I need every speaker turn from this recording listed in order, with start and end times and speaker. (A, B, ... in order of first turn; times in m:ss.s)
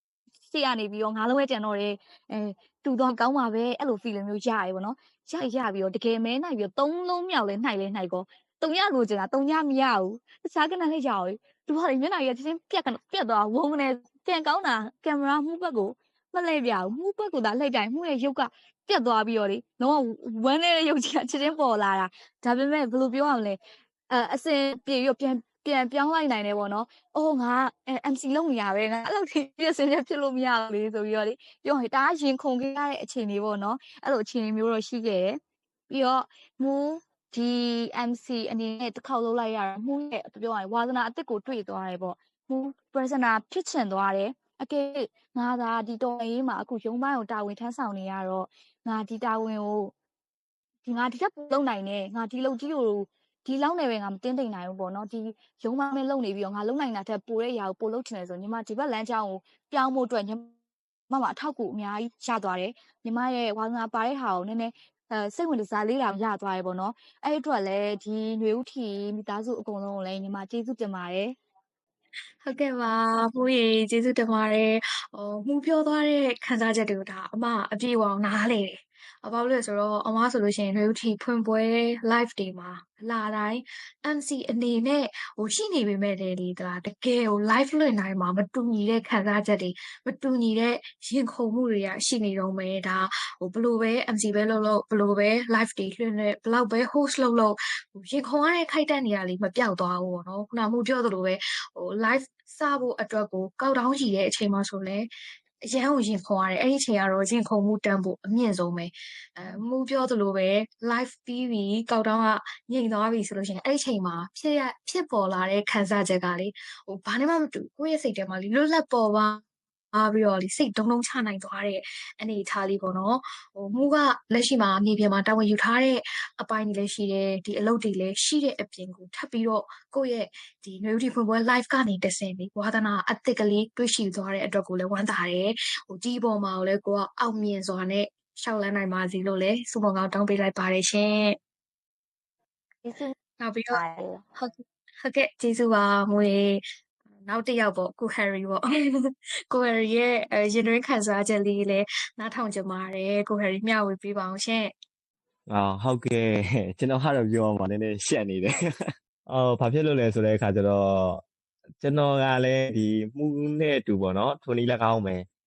0:00.5-0:23.6 A
0:24.1-0:49.9 A
0:50.8-1:00.5 A
1:01.1-1:11.4 A
1:12.4-1:45.1 B
1:45.7-1:59.4 B
1:59.9-2:21.4 B
2:22.8-2:23.1 A
2:23.4-2:23.8 B
2:23.7-2:24.2 A
2:25.0-2:26.6 B
2:27.3-2:34.7 B
2:35.5-2:41.2 C
2:41.8-2:45.2 C